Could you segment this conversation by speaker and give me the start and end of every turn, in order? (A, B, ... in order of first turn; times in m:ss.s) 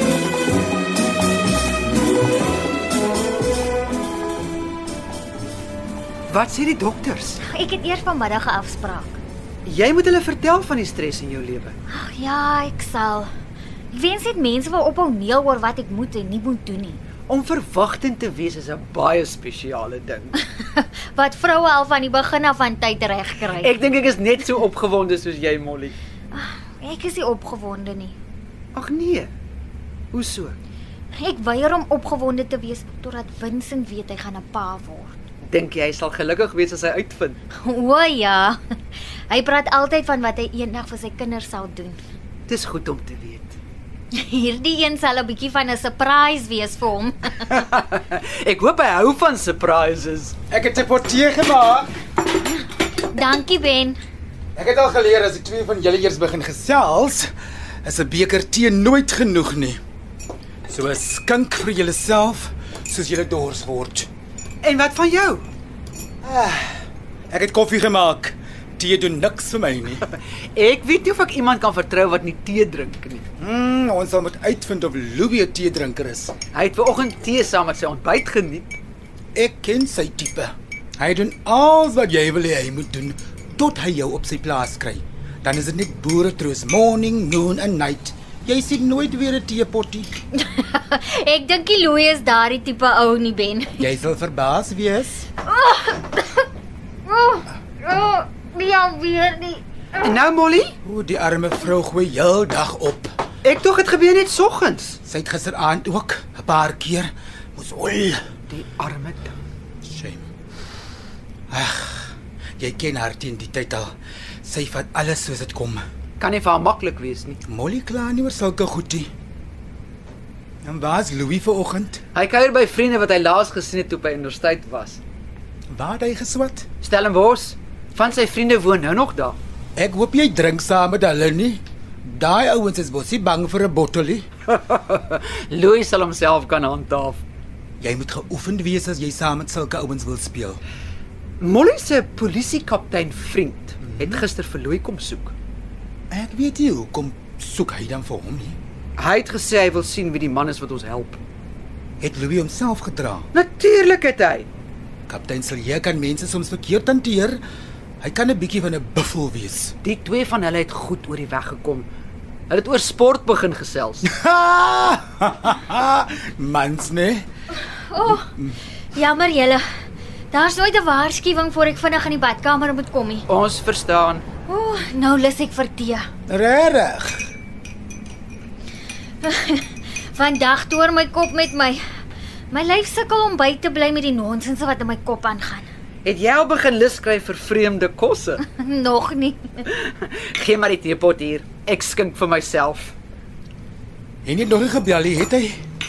0:06.3-0:07.4 A
0:07.4-0:09.2 B
0:09.6-0:11.8 A
0:11.9-0:13.3 B
0:13.9-0:17.0 B
0:17.3-0:20.4 A
0:20.6-0:23.7 B
0:23.6-0:25.9 A
0:26.3-0:28.2 B
0:28.7-0:29.3 A
0:30.1-0:30.6 A
0:31.1-0:35.1 B
0:35.5-0:37.4 A
0:37.5-0:38.6 B
0:39.3-0:42.0 B
0:42.5-0:43.6 A
0:44.1-0:47.6 B
0:47.5-0:50.3 A
0:50.5-0:51.9 C
0:53.1-0:54.0 B
0:54.6-0:57.3 C
0:57.8-0:59.8 C
1:00.7-1:04.1 C
1:04.6-1:05.4 A
1:06.2-1:06.7 C
1:07.3-1:10.0 C
1:10.5-1:13.2 A
1:13.4-1:16.3 C
1:16.5-1:18.7 A
1:19.3-1:30.1 C
1:30.3-1:33.9 B
1:33.8-1:35.3 C
1:35.4-1:36.5 B
1:37.0-1:39.6 B
1:40.0-1:40.8 A
1:40.8-1:43.1 C
1:43.4-1:45.0 A
1:45.0-1:48.2 C
1:48.5-1:49.3 A
1:49.8-1:50.2 C
1:51.5-1:55.8 C
1:56.2-1:57.4 A
1:57.4-1:59.1 C
2:00.6-2:02.0 C
2:02.1-2:05.0 A
2:05.7-2:06.6 C
2:06.8-2:09.4 A
2:09.8-2:14.3 C
2:14.5-2:17.2 A
2:17.8-2:20.6 C
2:21.4-2:25.3 A
2:23.9-2:24.2 C
2:26.1-2:28.6 C
2:29.0-2:31.2 A
2:32.0-2:33.3 C
2:33.3-2:34.5 A
2:35.1-2:37.4 C
2:38.0-2:39.7 C
2:39.8-2:41.9 A
2:42.5-2:44.0 A
2:44.0-2:47.2 C
2:47.9-2:48.2 B
2:48.0-2:48.6 C
2:48.9-2:49.6 B
2:50.3-2:53.3 B
2:53.3-2:54.2 A
2:54.5-2:56.0 B
2:56.3-2:57.3 C
2:59.2-3:01.8 B
3:02.5-3:05.7 B
3:06.0-3:08.4 A
3:08.4-3:09.5 B
3:09.7-3:12.9 A
3:14.2-3:15.6 C